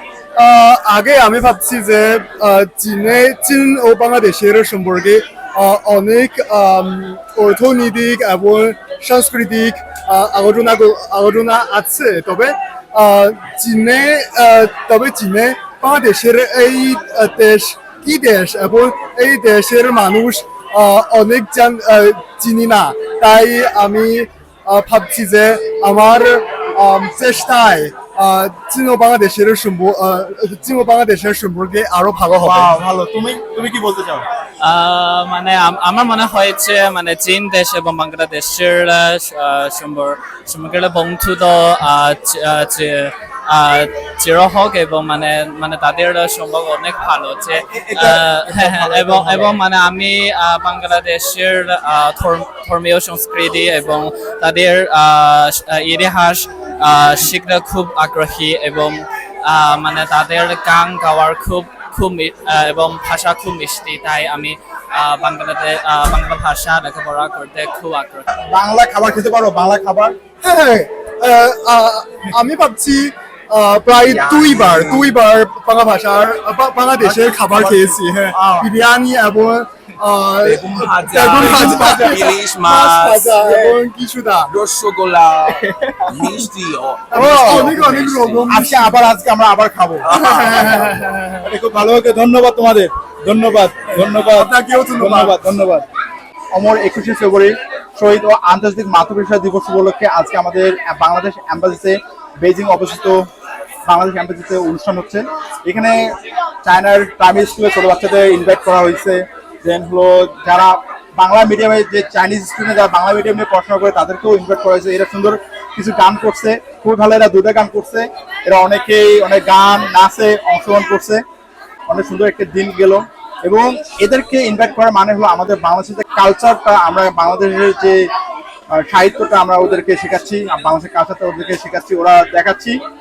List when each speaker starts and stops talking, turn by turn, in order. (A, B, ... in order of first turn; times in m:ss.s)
0:00.4-0:32.7 A
0:32.4-0:34.3 B
0:34.6-1:08.3 C
0:47.7-0:49.6 B
1:08.4-1:10.2 B
1:10.4-1:24.5 A
1:13.9-1:15.2 D
1:17.0-1:18.7 B
1:20.4-1:23.5 D
1:21.6-1:21.9 B
1:23.5-1:23.8 B
1:24.5-1:28.5 D
1:25.6-1:26.4 B
1:27.1-1:29.0 A
1:27.1-1:27.7 B
1:28.5-1:30.9 B
1:30.1-1:30.7 D
1:30.1-1:31.4 A
1:31.4-1:35.8 B
1:34.3-1:35.4 A
1:36.6-1:43.2 B
1:43.9-1:46.0 B
1:46.6-2:01.2 B
2:01.9-2:08.0 B
2:08.8-2:12.8 B